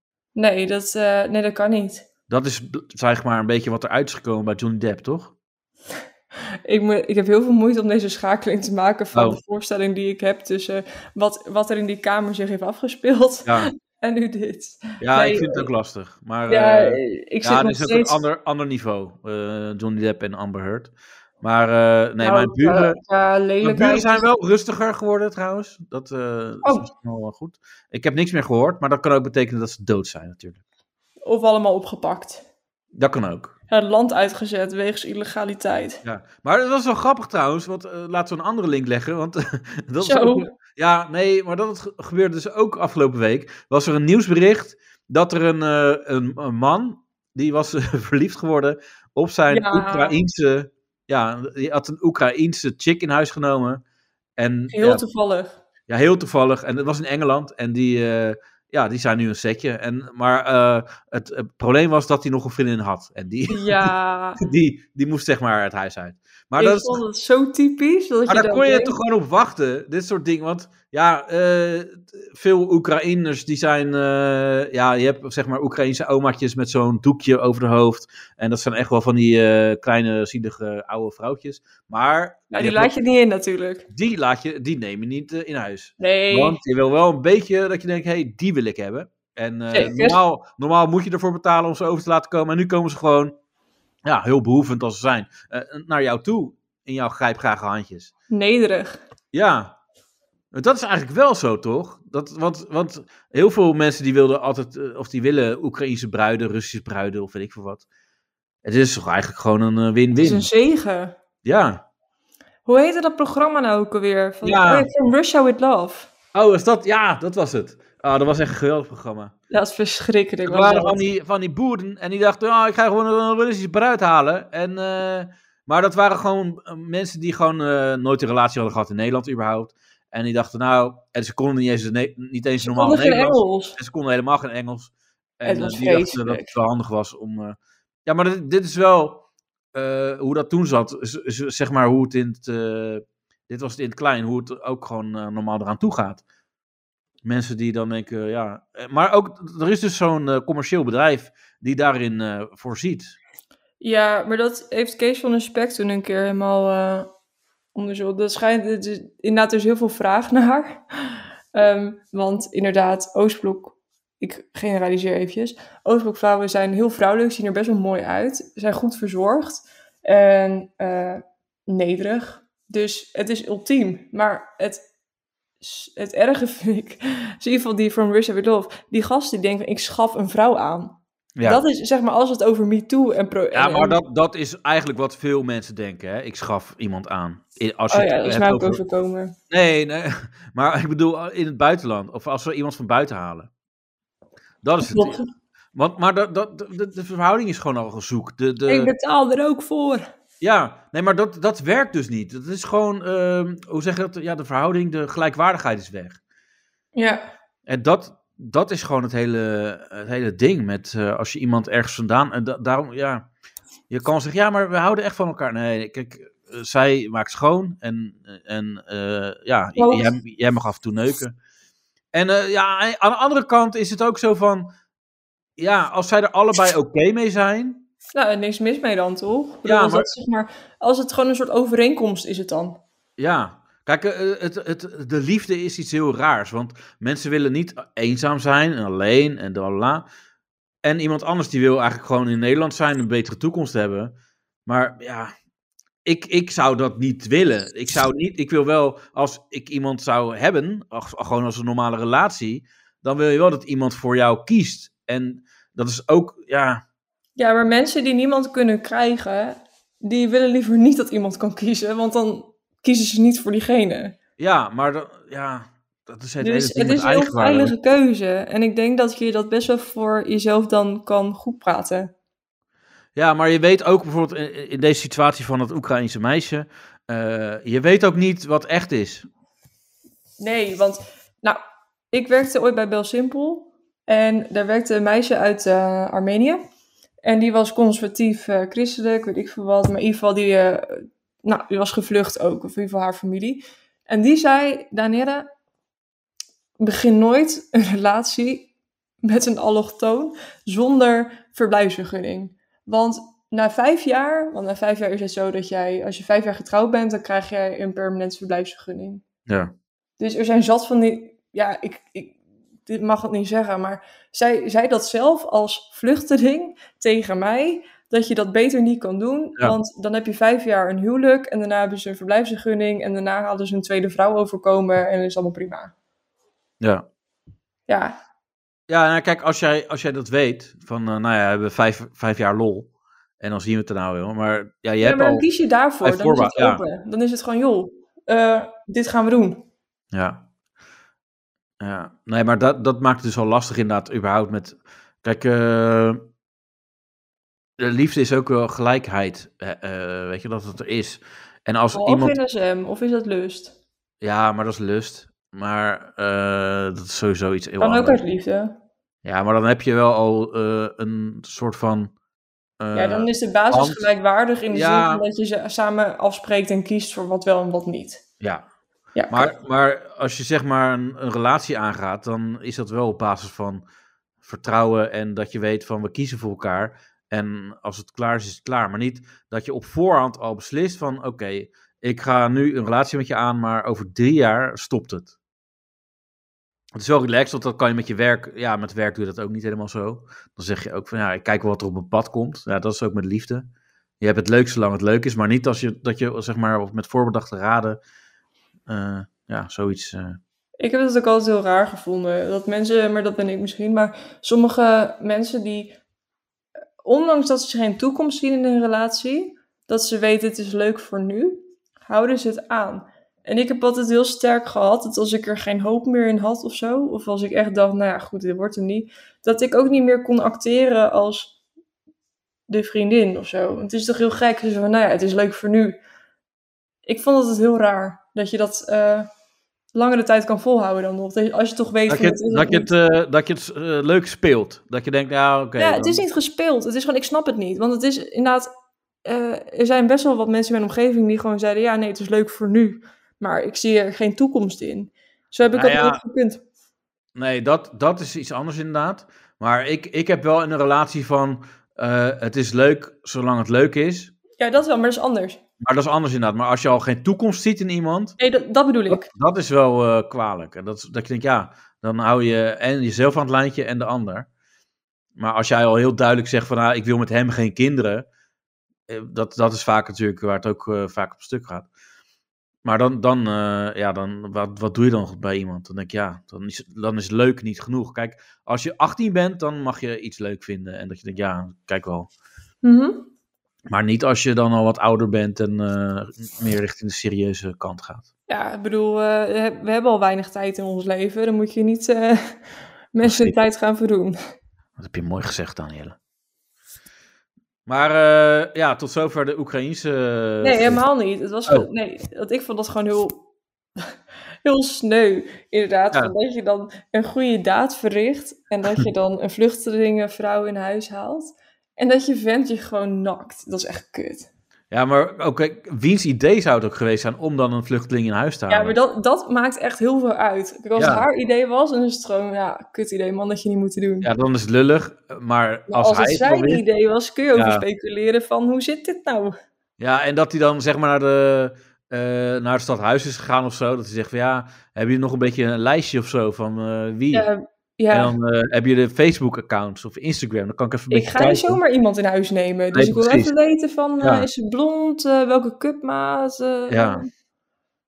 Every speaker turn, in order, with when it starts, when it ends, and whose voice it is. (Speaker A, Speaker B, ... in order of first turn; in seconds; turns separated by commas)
Speaker A: 0.4-2.1, Speaker B: 2.3-5.3, Speaker A: 6.7-15.7, Speaker B: 9.1-9.4, Speaker B: 13.4-13.7, Speaker B: 15.0-23.0, Speaker A: 16.5-18.2, Speaker A: 22.2-24.3, Speaker B: 23.6-30.6, Speaker A: 31.2-32.4, Speaker B: 33.0-33.5, Speaker A: 33.7-36.0, Speaker B: 36.0-53.8, Speaker A: 40.0-40.5, Speaker A: 49.5-50.1, Speaker B: 54.4-55.0, Speaker A: 54.7-55.6, Speaker B: 55.9-63.9, Speaker A: 63.5-64.4, Speaker B: 64.4-67.0, Speaker A: 66.6-69.0, Speaker B: 68.3-82.9, Speaker A: 82.5-83.8, Speaker B: 83.9-93.3, Speaker A: 86.0-86.6, Speaker A: 89.7-90.2, Speaker B: 94.0-98.1, Speaker A: 98.3-99.0, Speaker B: 99.3-99.8, Speaker B: 100.5-107.8, Speaker B: 108.6-110.5, Speaker A: 110.2-111.1, Speaker B: 111.5-111.8, Speaker A: 112.7-116.1, Speaker B: 114.4-114.9, Speaker B: 116.3-119.3, Speaker A: 119.5-121.0, Speaker B: 120.5-139.2, Speaker A: 132.6-133.8, Speaker A: 135.4-136.5, Speaker B: 139.7-146.2, Speaker B: 147.2-153.2, Speaker A: 153.8-157.1, Speaker A: 157.8-174.8, Speaker A: 175.6-184.0, Speaker B: 181.4-181.6, Speaker B: 183.5-188.8, Speaker A: 187.9-189.3, Speaker B: 189.5-193.5, Speaker B: 194.6-195.2, Speaker A: 194.9-195.2, Speaker B: 195.7-198.9, Speaker A: 198.7-200.1, Speaker B: 200.4-206.2, Speaker A: 206.9-207.2, Speaker B: 207.7-213.3, Speaker B: 213.9-221.3, Speaker A: 219.8-220.1, Speaker B: 222.1-224.7, Speaker B: 225.6-227.8, Speaker A: 228.1-232.8, Speaker B: 229.7-230.1, Speaker B: 233.2-240.1, Speaker B: 240.8-244.1, Speaker B: 244.7-245.3, Speaker B: 246.1-256.8, Speaker A: 257.4-264.2, Speaker B: 264.4-267.7, Speaker A: 266.4-272.1, Speaker B: 273.2-279.3, Speaker A: 280.4-281.6, Speaker A: 282.1-286.6, Speaker A: 287.2-295.5, Speaker A: 296.8-298.7, Speaker A: 299.2-309.2, Speaker B: 309.5-309.7, Speaker A: 310.2-312.4, Speaker A: 312.9-325.9, Speaker B: 326.8-327.1, Speaker A: 327.9-328.2, Speaker B: 328.9-332.9, Speaker B: 333.4-335.4, Speaker A: 335.0-339.6, Speaker B: 336.0-336.8, Speaker B: 340.1-340.4, Speaker B: 341.8-346.2, Speaker B: 347.8-352.4, Speaker A: 351.9-353.8, Speaker B: 354.2-358.2, Speaker A: 357.8-358.8, Speaker B: 359.2-362.1, Speaker B: 362.8-364.0, Speaker A: 362.9-368.2, Speaker B: 364.7-365.2, Speaker B: 368.4-368.7, Speaker A: 369.2-369.5, Speaker B: 369.3-373.8, Speaker B: 374.4-385.3, Speaker B: 386.9-393.7, Speaker B: 394.2-398.0, Speaker B: 398.9-400.4, Speaker A: 400.8-405.9, Speaker A: 407.0-421.6, Speaker A: 422.7-426.0, Speaker A: 427.1-429.3, Speaker A: 429.9-432.9, Speaker B: 432.1-436.2, Speaker A: 435.8-438.7, Speaker A: 439.2-446.6, Speaker B: 445.7-446.2, Speaker B: 447.4-454.3, Speaker A: 454.6-455.6, Speaker B: 455.8-458.4, Speaker A: 458.4-459.3, Speaker B: 459.1-464.5, Speaker B: 465.4-468.3, Speaker B: 469.1-471.9, Speaker B: 472.8-482.3, Speaker A: 482.8-483.3, Speaker B: 483.9-488.3, Speaker A: 488.5-492.6, Speaker A: 493.1-494.4, Speaker B: 493.2-493.6, Speaker B: 495.0-496.2, Speaker B: 497.9-501.0, Speaker A: 500.6-503.4, Speaker A: 504.6-514.5, Speaker B: 514.9-519.0, Speaker A: 518.7-524.3, Speaker B: 521.0-521.3, Speaker B: 524.2-526.8, Speaker A: 525.9-529.6, Speaker B: 527.5-527.8, Speaker B: 530.0-537.5, Speaker A: 537.3-538.3, Speaker B: 538.1-541.8, Speaker A: 541.1-547.3, Speaker B: 542.9-543.5, Speaker B: 544.2-544.5, Speaker B: 546.9-547.2